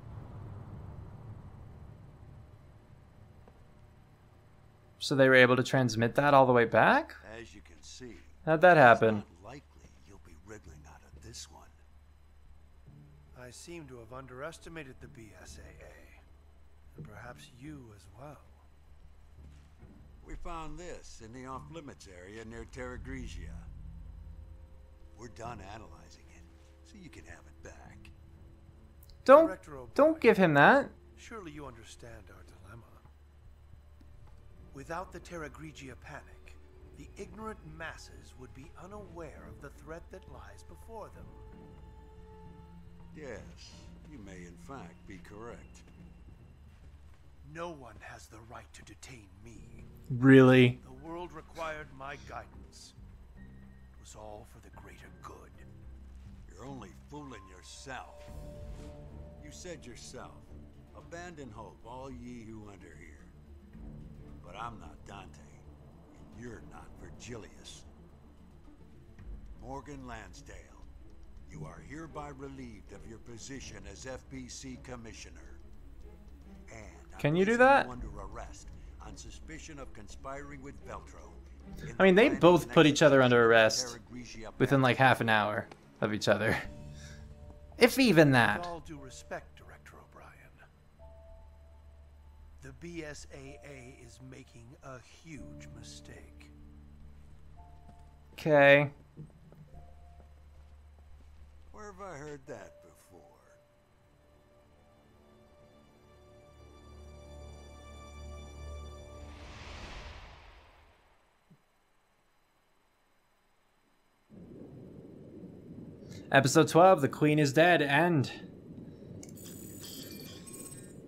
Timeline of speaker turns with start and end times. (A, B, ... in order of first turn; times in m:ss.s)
0:05.0-0:07.2 A
0:07.2-0:11.7 B
0:08.4-0:09.2 A
0:13.4-0:16.2 C
0:16.9-0:18.6 C
0:20.2-0:23.6 B
0:25.1-0:28.1 B
0:29.2-0:30.4 C
0:29.2-0:30.9 A
0:31.2-0:33.0 C
0:34.7-0:41.5 C
0:43.1-0:45.8 B
0:47.4-0:49.9 C
0:50.1-0:50.8 A
0:50.8-0:52.9 C
0:54.0-0:55.7 C
0:56.4-0:58.4 B
0:59.4-1:03.3 B
1:04.4-1:07.9 B
1:09.5-1:10.9 B
1:11.4-1:15.6 B
1:16.7-1:25.2 B
1:17.2-1:17.9 A
1:22.0-1:24.0 A
1:24.6-1:26.7 A
1:27.8-1:28.7 A
1:28.4-1:30.6 C
1:32.6-1:36.5 C
1:38.4-1:38.9 A
1:41.7-1:43.6 B
1:56.3-1:58.4 A